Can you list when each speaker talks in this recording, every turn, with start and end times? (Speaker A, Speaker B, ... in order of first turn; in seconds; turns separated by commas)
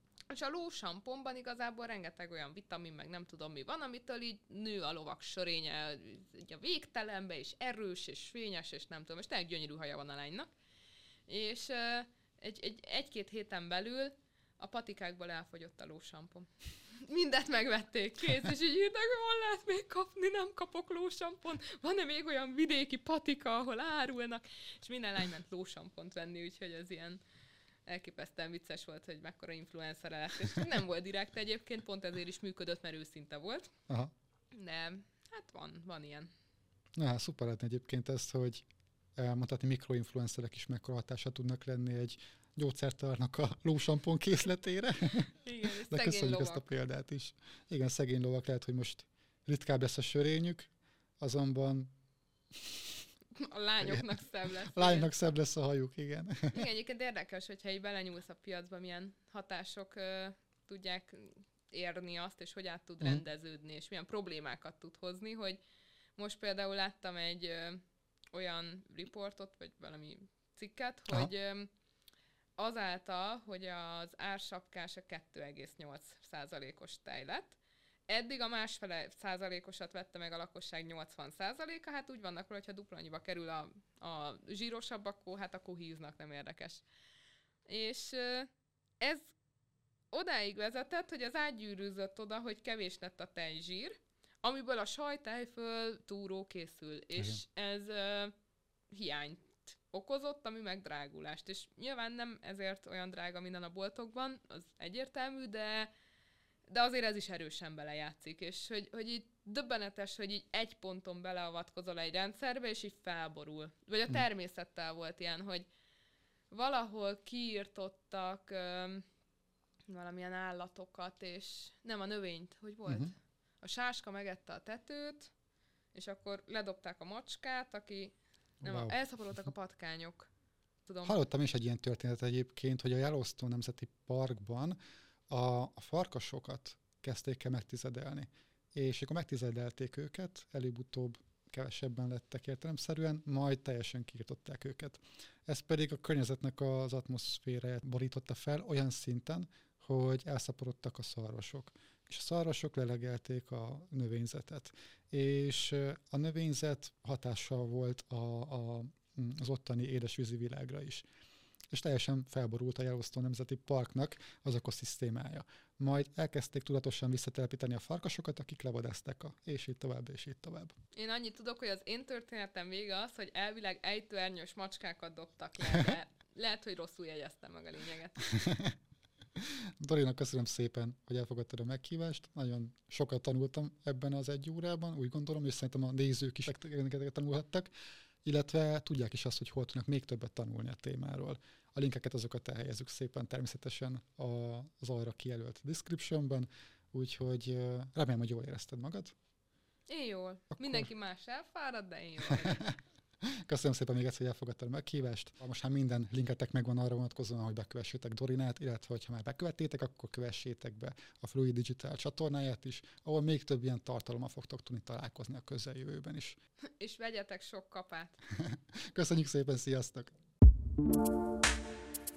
Speaker A: 0.3-10.5, Speaker A: 11.3-27.2, Speaker A: 27.9-33.7, Speaker A: 34.5-36.3, Speaker B: 37.0-38.6, Speaker B: 39.2-51.9, Speaker A: 45.3-46.6, Speaker B: 52.5-52.9, Speaker A: 53.3-55.1, Speaker B: 53.8-54.1, Speaker B: 54.6-56.6, Speaker A: 56.5-65.6, Speaker A: 66.2-67.8, Speaker A: 68.3-71.7, Speaker A: 72.6-77.6, Speaker A: 78.1-86.8, Speaker A: 87.7-89.3, Speaker A: 90.1-98.3, Speaker A: 98.9-105.9, Speaker A: 106.7-115.7, Speaker A: 116.5-119.0, Speaker A: 119.9-125.3, Speaker A: 125.9-130.3, Speaker B: 128.6-129.0, Speaker A: 130.8-131.2, Speaker B: 131.0-134.8, Speaker B: 135.3-161.0, Speaker B: 161.7-170.7, Speaker A: 170.9-178.2, Speaker B: 178.3-178.8, Speaker B: 179.4-187.7, Speaker B: 188.2-199.1, Speaker A: 199.9-202.7, Speaker B: 202.4-216.4, Speaker A: 216.8-218.2, Speaker B: 218.3-220.1